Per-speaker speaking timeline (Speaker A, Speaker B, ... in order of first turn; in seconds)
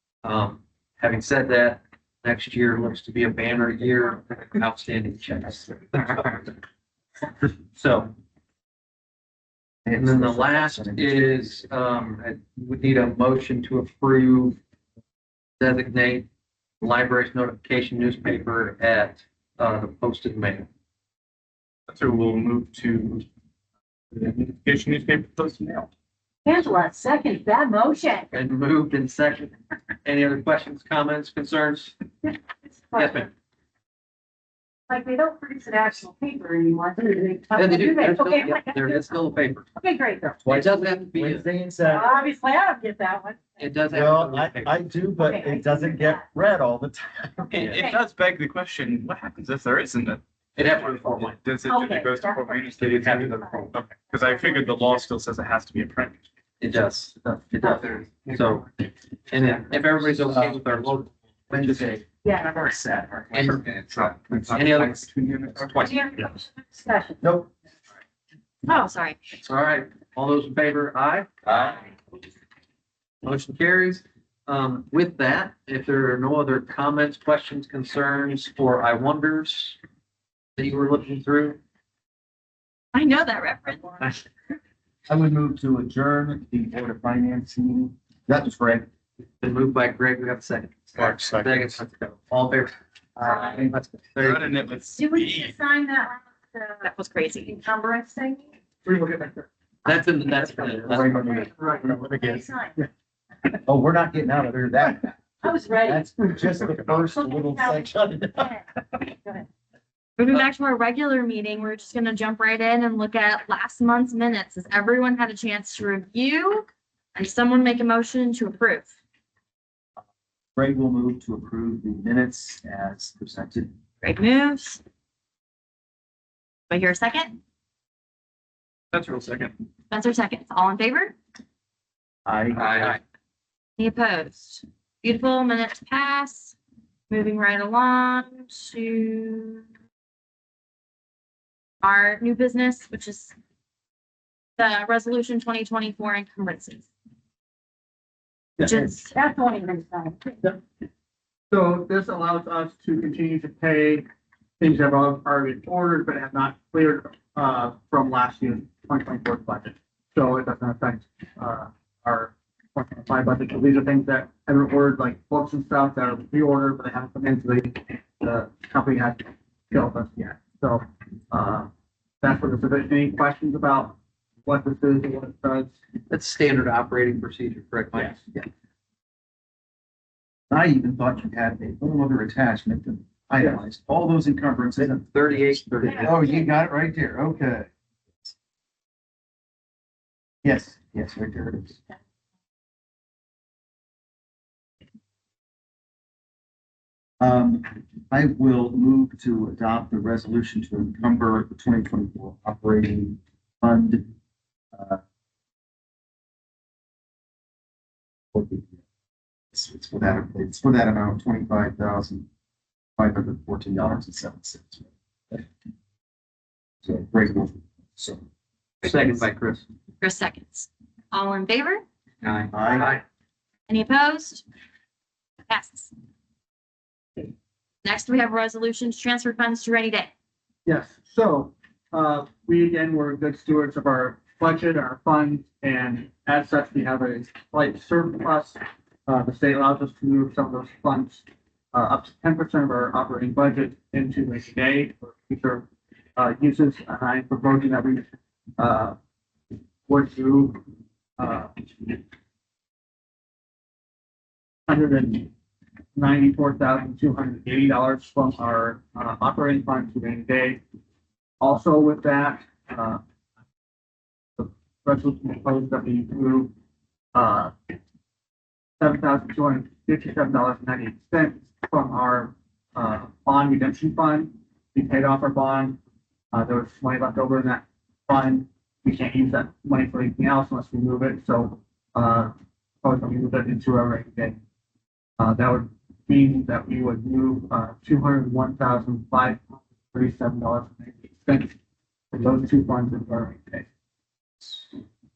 Speaker A: 0.2-6.6, 7.7-8.1, 9.9-14.6, 15.6-16.3, 16.8-20.7, 28.3-31.9, 32.9-33.3, 37.5-39.7, 40.5-41.5, 43.6-44.9, 50.5-51.4, 56.6-58.7, 59.3-62.0, 63.3-65.1, 69.4-71.3, 73.2-79.8, 80.6-81.6, 89.4-92.7, 93.3-94.5, 99.8-101.3, 132.5-133.0, 176.1-178.4, 185.0-186.2, 218.8-219.6, 222.2-223.0
Speaker B: 9.8-11.7, 40.4-42.1, 43.9-47.6, 60.2-60.6, 61.5-63.7, 64.3-64.9, 67.2-67.5, 71.5-71.7, 85.1-88.8, 93.2-93.8, 100.9-102.1, 103.6-105.2, 105.7-108.6, 120.5-123.7, 132.2-132.9, 180.5-185.1, 186.0-187.7, 190.4-191.8, 197.2-204.0, 204.7-205.0, 208.3-208.7, 209.5-212.2, 213.0-215.4, 216.8-218.2, 222.5-222.9
Speaker C: 21.9-23.2, 24.1-25.9, 47.5-56.2, 63.5-66.0, 91.0-91.6, 94.2-95.5, 102.0-102.4, 128.9-129.5
Speaker D: 26.4-28.3, 32.9-33.3, 34.9-40.4, 41.8-43.6, 45.2-46.2, 47.7-48.0, 51.6-53.7, 54.2-54.6, 62.2-62.5, 65.7-67.2, 94.9-96.9, 97.4-98.5, 101.1-102.8, 105.4-106.0, 107.0-109.5, 149.0-150.4
Speaker E: 68.6-69.2, 82.9-84.0, 96.8-97.5, 110.2-118.9, 124.0-124.8, 126.7-127.4, 129.9-131.1, 133.8-136.5, 137.1-139.6, 141.8-143.3, 144.6-146.8, 148.6-149.1, 220.0-221.8, 223.7-224.4, 225.5-225.9, 227.8-230.1
Speaker F: 98.8-99.5, 101.6-102.0, 148.6-148.8, 151.5-154.0, 154.6-171.7, 172.2-175.7, 230.6-248.9, 249.9-250.6, 251.2-252.0, 254.7-255.3, 255.9-260.6, 261.4-263.0, 264.4-266.5, 267.1-267.5, 268.8-275.8, 276.3-282.3, 282.8-284.4, 285.2-291.5, 292.1-293.6